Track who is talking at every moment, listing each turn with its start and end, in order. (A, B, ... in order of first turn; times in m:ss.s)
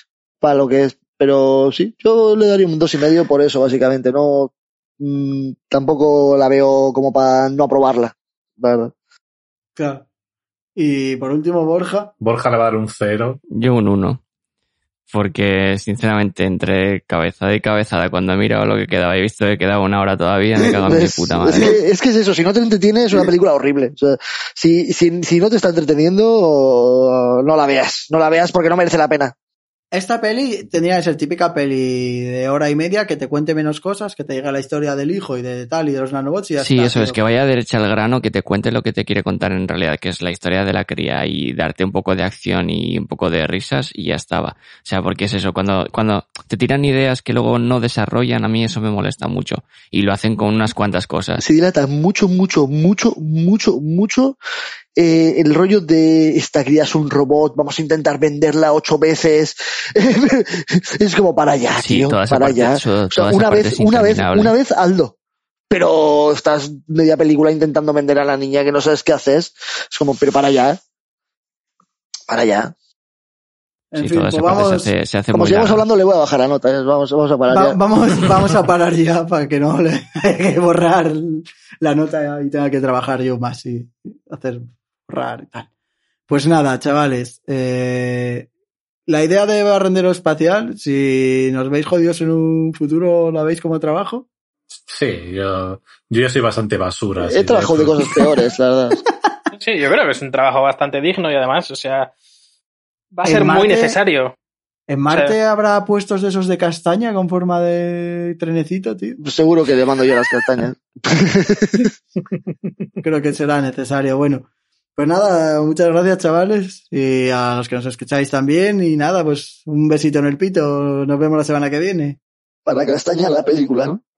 0:00.4-0:08.9 A
0:09.8-0:10.0 B
0:10.8-0:12.1 B
0:12.2-0:13.4 C
0:13.5-0:14.2 D
0:15.1-0:21.7 D
0:20.8-0:29.3 A
0:29.9-0:37.2 B
0:36.6-0:51.4 D
0:51.4-0:54.4 A
0:55.0-1:05.2 A
1:01.8-1:04.5 D
1:05.7-1:10.8 A
1:12.3-1:12.7 A
1:13.9-1:14.9 B
1:14.0-1:15.8 D
1:15.3-1:17.8 A
1:17.5-1:25.7 B
1:26.3-1:28.5 B
1:29.1-1:34.3 B
1:34.7-1:38.2 C
1:37.2-1:39.0 A
1:39.5-1:42.1 E
1:43.1-1:44.4 E
1:43.2-1:44.0 B
1:44.9-1:49.2 B
1:45.1-1:45.4 E
1:49.2-1:51.9 A
1:53.0-2:02.2 B
2:02.7-2:04.0 A